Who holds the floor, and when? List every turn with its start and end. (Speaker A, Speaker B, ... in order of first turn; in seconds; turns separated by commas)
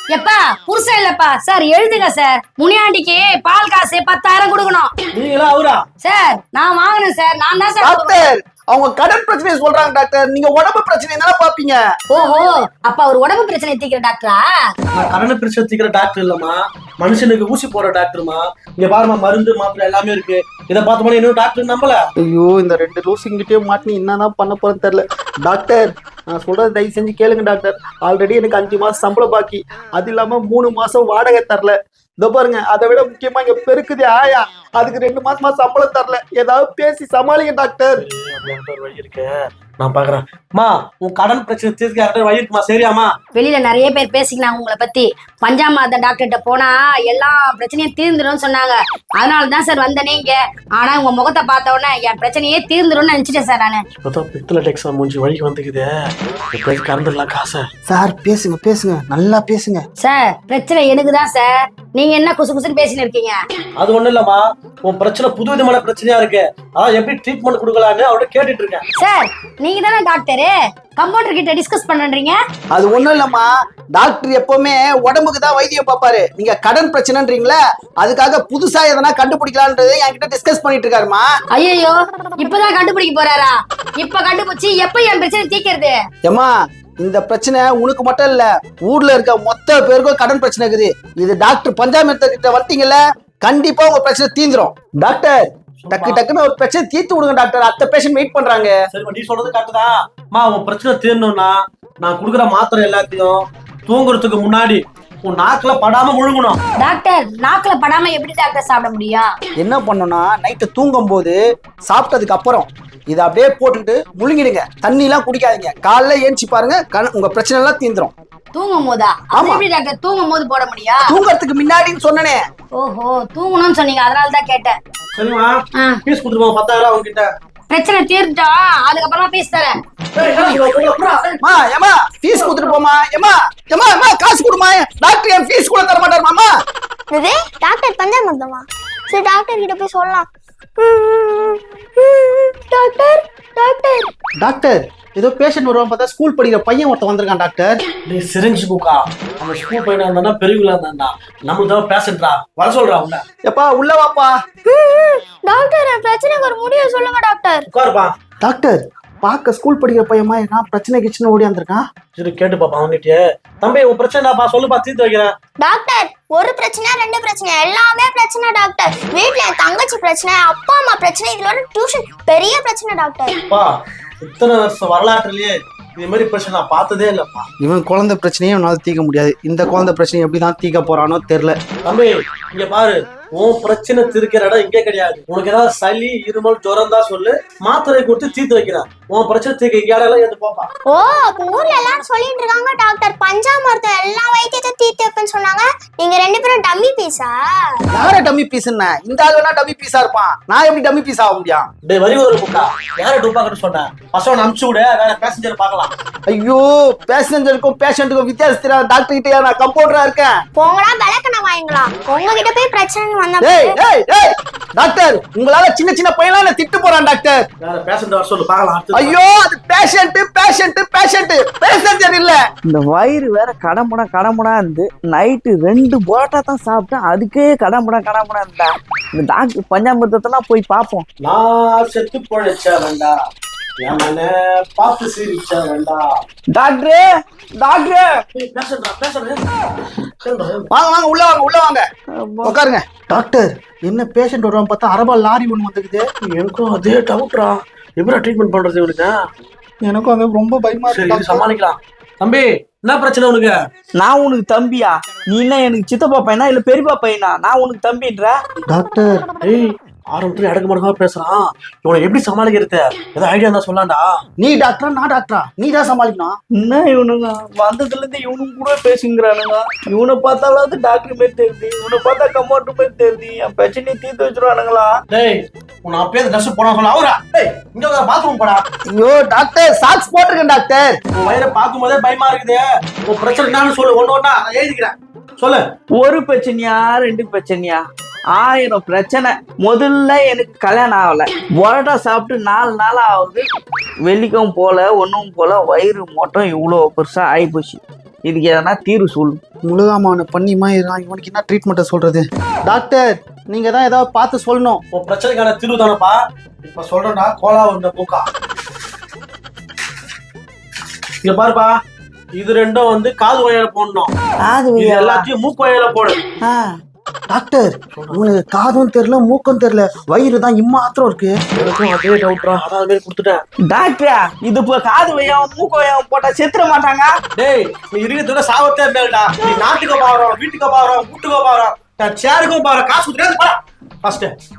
Speaker A: 0.1-4.9, Speaker B: 5.1-5.8, Speaker A: 6.0-8.2, Speaker C: 7.8-11.8, Speaker A: 12.1-14.4, Speaker B: 14.9-22.0, Speaker C: 22.2-38.0, Speaker B: 38.0-43.1, Speaker A: 43.3-53.8, Speaker B: 54.0-57.7, Speaker C: 57.9-59.8, Speaker A: 60.0-63.4, Speaker B: 63.8-68.8, Speaker A: 69.0-72.4, Speaker C: 72.7-81.3, Speaker A: 81.5-86.0, Speaker C: 86.2-98.7, Speaker B: 95.8-96.2, Speaker B: 98.9-106.6, Speaker A: 106.8-109.3, Speaker C: 109.6-118.1, Speaker A: 118.5-121.1, Speaker C: 119.3-119.6, Speaker C: 121.1-122.4, Speaker A: 122.7-124.8, Speaker B: 125.1-127.3, Speaker A: 127.7-129.7, Speaker B: 130.2-131.4, Speaker C: 131.4-136.5, Speaker B: 132.4-132.6, Speaker D: 137.1-140.3, Speaker D: 140.8-144.1, Speaker C: 144.4-147.8, Speaker B: 148.1-153.2, Speaker C: 153.4-154.3, Speaker D: 154.7-157.7, Speaker B: 157.7-158.1, Speaker C: 158.4-161.8, Speaker B: 162.2-165.3, Speaker D: 165.6-173.3, Speaker B: 174.2-177.5, Speaker C: 177.6-181.6, Speaker B: 181.8-190.7, Speaker D: 190.9-197.8, Speaker C: 197.9-201.7, Speaker B: 201.8-205.9, Speaker C: 206.3-210.4, Speaker D: 210.6-213.8, Speaker C: 213.4-217.4, Speaker B: 217.6-219.2, Speaker C: 218.9-222.4, Speaker E: 222.6-231.0, Speaker B: 231.2-233.1, Speaker B: 233.8-236.1, Speaker E: 236.5-238.2, Speaker B: 238.3-239.4, Speaker B: 240.2-240.7, Speaker C: 240.7-241.8, Speaker E: 242.2-242.6, Speaker C: 242.4-246.0, Speaker B: 246.2-249.1, Speaker C: 249.8-251.4, Speaker B: 250.9-253.5, Speaker E: 254.0-258.4, Speaker C: 258.7-259.2, Speaker B: 259.4-264.1, Speaker C: 264.4-266.4, Speaker E: 266.5-275.0, Speaker B: 275.1-278.6, Speaker C: 278.9-281.0, Speaker B: 281.1-285.6, Speaker E: 285.9-293.5, Speaker E: 294.0-299.4, Speaker C: 299.6-304.8, Speaker B: 304.9-308.2, Speaker B: 311.2-311.8, Speaker B: 312.3-314.1, Speaker E: 314.4-315.3, Speaker B: 314.8-316.2, Speaker C: 317.3-321.3, Speaker B: 317.9-318.2, Speaker B: 321.6-323.4, Speaker E: 323.7-327.1, Speaker B: 327.4-334.3